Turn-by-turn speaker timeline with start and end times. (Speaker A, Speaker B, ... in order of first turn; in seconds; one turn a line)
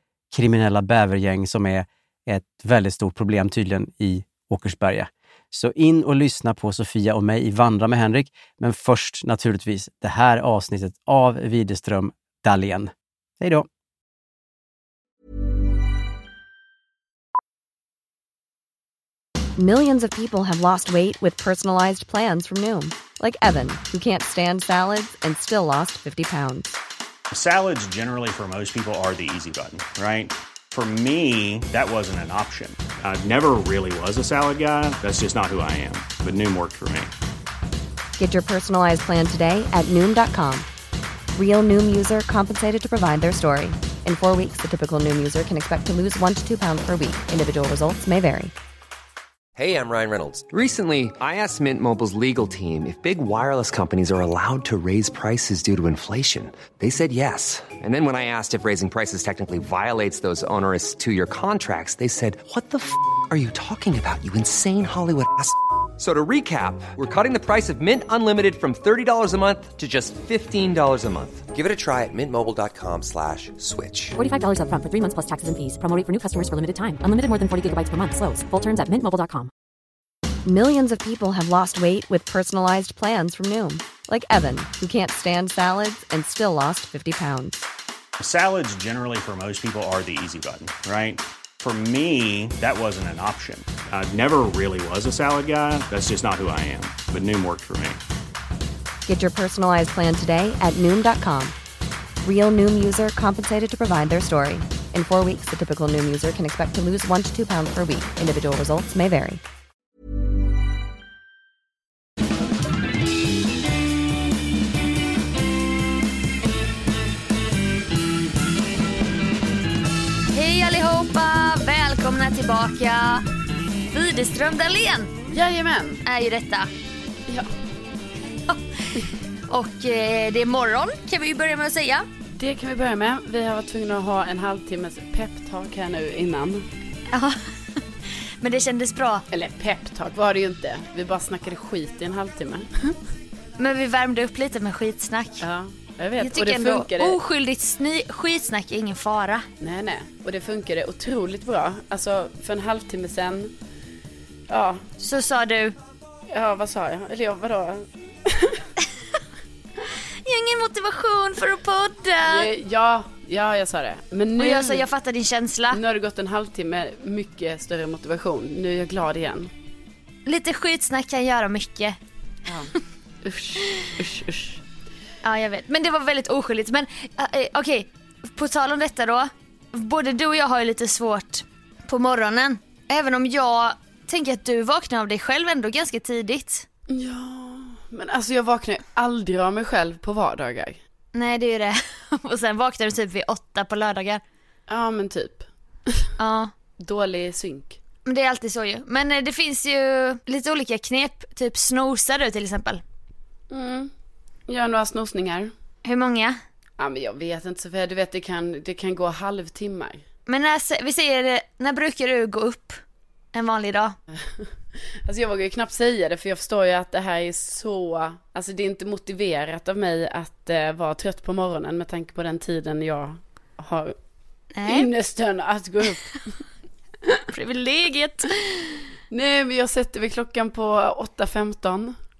Speaker A: 0.3-13.7
Speaker B: 19.6-26.8
Speaker C: 27.3-37.1
Speaker B: 38.2-40.7
Speaker B: 41.4-48.5
Speaker D: 49.6-74.2
Speaker E: 74.2-79.5
Speaker B: 80.5-87.6
Speaker C: 88.2-98.0
Speaker B: 99.1-101.5
Speaker B: 102.2-109.4
Speaker F: 120.3-123.2
Speaker F: 123.9-125.1
Speaker G: 125.3-126.0
Speaker F: 126.0-126.7
Speaker G: 127.3-127.5
Speaker F: 128.5-132.1
Speaker G: 132.3-136.7
Speaker F: 137.1-137.4
Speaker F: 138.4-139.2
Speaker G: 139.3-143.0
Speaker F: 143.6-145.4
Speaker G: 145.4-147.2
Speaker F: 146.2-149.5
Speaker G: 149.6-153.5
Speaker G: 154.5-154.8
Speaker F: 155.0-155.8
Speaker G: 156.3-158.7
Speaker F: 160.2-162.5
Speaker G: 162.2-164.8
Speaker F: 164.4-165.8
Speaker G: 165.7-169.5
Speaker F: 170.3-172.0
Speaker G: 172.5-172.7
Speaker G: 173.2-174.6
Speaker F: 175.2-186.7
Speaker G: 186.9-190.8
Speaker F: 191.1-194.2
Speaker G: 194.7-196.1
Speaker F: 196.2-196.5
Speaker G: 196.8-197.8
Speaker F: 198.1-202.8
Speaker G: 203.5-203.9
Speaker G: 204.5-205.5
Speaker F: 205.8-206.4
Speaker G: 206.8-210.0
Speaker F: 210.3-212.8
Speaker F: 213.3-214.0
Speaker G: 214.1-214.5
Speaker G: 215.1-224.0
Speaker F: 224.6-224.9
Speaker G: 224.7-226.4
Speaker F: 227.3-228.8
Speaker G: 229.1-232.0